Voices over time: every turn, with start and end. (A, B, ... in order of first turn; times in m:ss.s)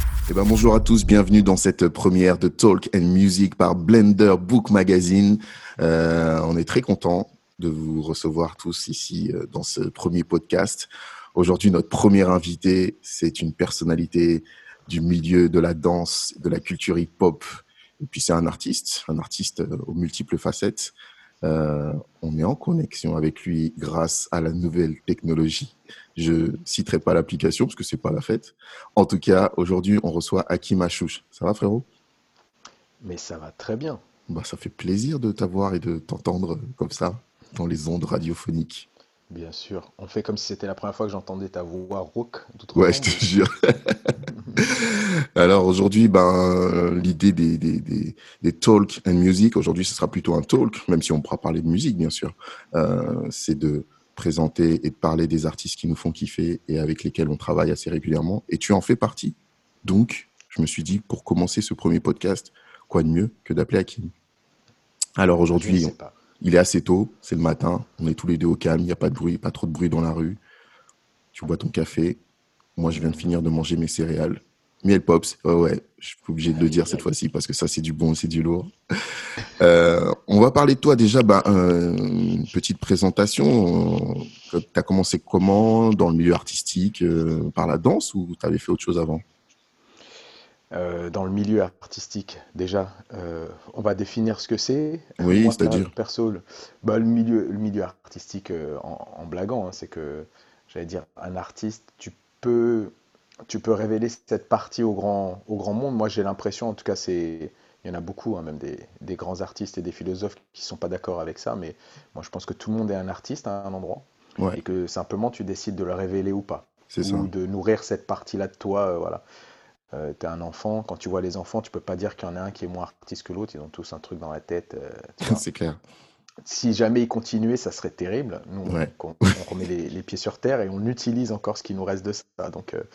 0:00.3-0:31.8 A
0:33.0-0:34.0 B
0:34.3-0:38.9 A
0:39.3-0:43.3 B
0:42.7-1:04.1 A
0:44.3-0:44.6 B
1:05.2-1:10.4 A
1:05.5-1:06.2 B
1:11.3-1:12.2 A
1:12.8-1:18.7 A
1:12.9-1:13.3 B
1:19.6-1:29.2 A
1:30.7-1:42.9 B
1:35.2-1:35.9 A
1:43.5-1:59.2 B
1:56.9-1:57.3 A
1:59.9-2:05.4 B
2:05.2-2:05.8 A
2:06.4-2:12.8 B